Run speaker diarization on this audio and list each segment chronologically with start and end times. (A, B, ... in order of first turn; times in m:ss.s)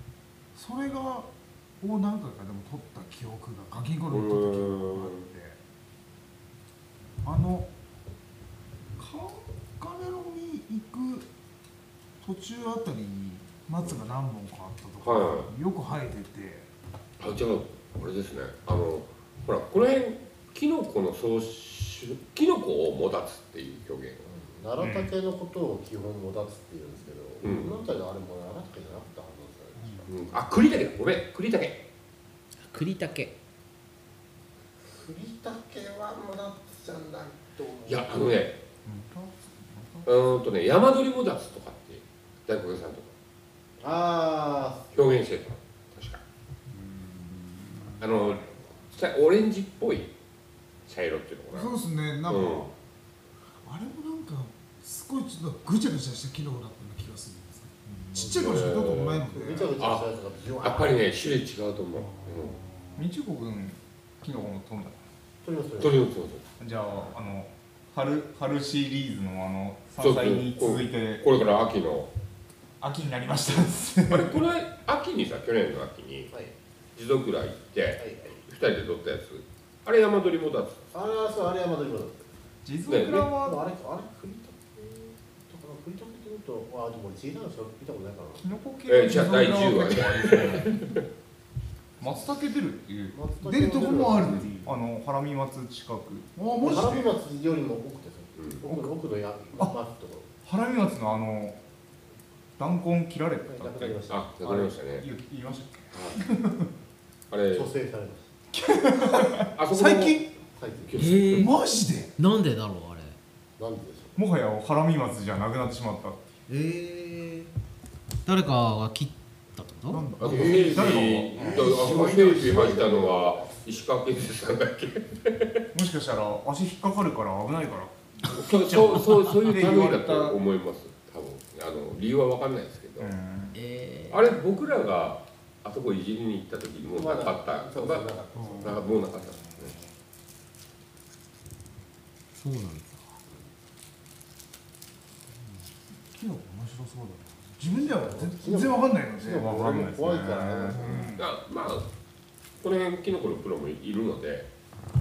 0:00.6-0:01.3 A
0:01.8-0:05.6 A
0:04.1-0:05.2 B
0:07.2-0:07.7 A
0:09.0-0:11.3 A
0:12.2-0:16.7 A
0:15.0-0:15.5 B
0:17.2-0:24.2 B
0:24.2-0:30.1 C
0:24.8-0:25.1 D
0:27.4-0:27.8 B
0:30.1-0:31.8 B
0:32.6-0:33.3 E
0:34.9-0:38.4 C
0:37.9-0:38.6 B
0:38.8-0:40.1 D
0:40.1-0:43.1 B
0:43.8-0:44.9 C
0:44.9-0:46.2 B
0:47.0-0:48.1 A
0:48.0-0:50.1 B
0:50.9-0:52.7 B
0:51.5-0:52.7 A
0:53.6-0:59.8 A
0:58.2-0:58.7 C
0:58.2-0:59.3 B
0:59.3-1:01.1 C
0:59.8-1:02.6 B
1:02.0-1:03.1 A
1:03.0-1:05.0 D
1:05.4-1:06.1 C
1:05.8-1:06.4 B
1:06.6-1:11.2 D
1:10.0-1:12.1 B
1:12.8-1:14.4 D
1:13.5-1:16.3 B
1:17.0-1:21.5 B
1:18.0-1:18.4 C
1:20.9-1:22.3 C
1:22.6-1:23.6 D
1:22.9-1:23.3 B
1:23.3-1:28.4 C
1:28.4-1:30.8 D
1:28.9-1:31.0 B
1:32.0-1:33.2 D
1:33.1-1:34.4 C
1:33.4-1:34.7 A
1:34.6-1:37.0 D
1:36.4-1:37.1 A
1:36.6-1:40.3 C
1:38.4-1:38.7 B
1:40.4-1:41.6 D
1:42.6-1:46.7 D
1:43.4-1:44.2 C
1:44.1-1:45.1 B
1:45.9-1:46.2 B
1:47.3-1:47.7 B
1:47.5-1:48.3 C
1:48.5-1:49.5 D
1:49.3-1:50.3 A
1:49.6-1:50.2 B
1:50.5-1:51.0 C
1:50.8-1:51.5 B
1:51.0-1:52.2 A
1:51.0-1:51.5 E
1:52.2-1:53.2 E
1:53.6-1:54.2 C
1:54.2-1:56.2 D
1:56.5-1:57.5 A
1:57.2-1:57.5 E
1:58.2-2:00.0 E
1:59.8-2:00.8 A
2:00.2-2:05.6 B
2:00.2-2:03.6 C
2:00.5-2:02.9 D
2:05.7-2:10.4 D
2:08.3-2:13.2 B
2:13.0-2:13.6 D
2:13.5-2:14.4 E
2:14.1-2:19.8 B
2:17.0-2:18.9 C
2:18.4-2:18.8 A
2:22.4-2:23.0 E
2:25.4-2:29.4 A
2:27.8-2:31.1 C
2:29.4-2:31.3 D
2:30.8-2:31.2 A
2:31.2-2:31.9 B
2:32.6-2:34.5 B